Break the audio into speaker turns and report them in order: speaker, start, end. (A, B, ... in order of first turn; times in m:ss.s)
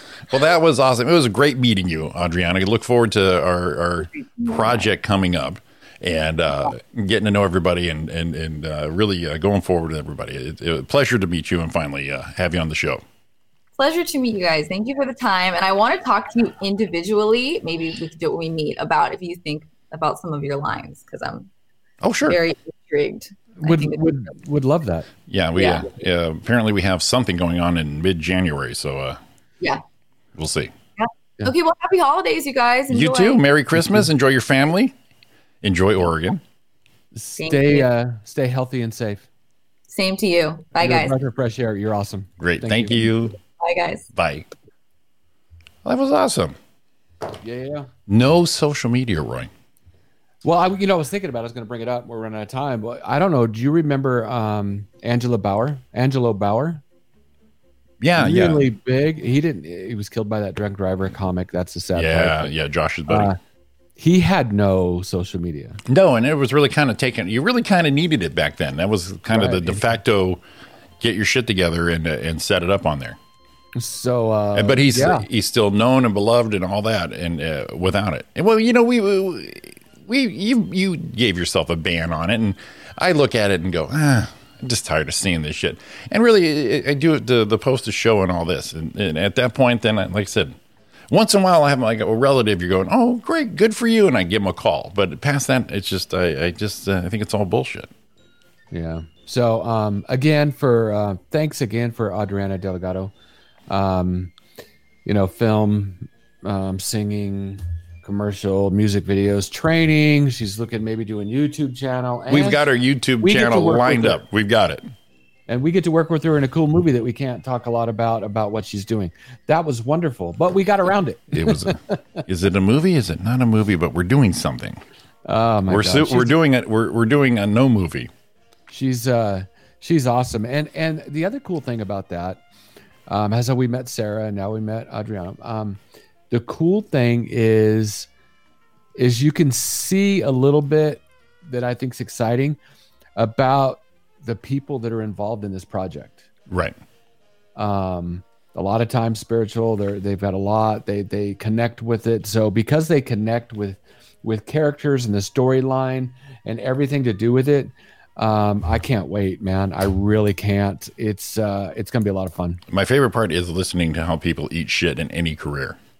0:00.3-0:13.0 A
0:04.1-0:04.8 B
0:13.8-0:21.5 B
0:22.0-0:22.4 A
0:22.2-0:24.1 B
0:23.6-0:25.1 C
0:25.3-0:29.2 A
0:25.5-0:25.9 B
0:30.4-0:30.7 A
0:31.0-0:33.4 B
0:32.9-0:34.9 A
0:33.7-0:34.1 C
0:35.6-0:36.4 A
0:37.2-0:39.3 C
0:37.4-0:37.9 B
0:39.9-0:41.2 B
0:40.8-0:43.1 C
0:42.4-0:43.4 A
0:43.6-0:44.0 B
0:44.1-0:44.5 A
0:45.8-0:46.6 A
0:47.4-0:47.9 C
0:48.1-0:49.5 A
0:50.4-0:56.8 C
0:58.0-0:58.6 A
0:58.2-1:02.5 C
1:01.9-1:03.3 A
1:03.1-1:03.4 C
1:04.0-1:05.8 C
1:05.8-1:10.4 A
1:09.3-1:09.8 C
1:11.0-1:13.2 A
1:13.8-1:15.3 C
1:14.5-1:30.6 A
1:31.1-1:37.9 A
1:38.7-1:43.1 C
1:43.7-1:44.3 C
1:45.0-1:52.6 C
1:52.3-1:54.8 A
1:53.2-1:54.2 C
1:55.5-2:02.2 C
2:01.3-2:04.8 A
2:05.2-2:06.4 C
2:05.7-2:08.1 A
2:08.7-2:12.4 C
2:13.1-2:18.1 C
2:19.0-2:22.6 C
2:23.2-2:26.2 C
2:26.5-2:26.8 A
2:27.6-2:42.6 C
2:42.7-2:45.8 A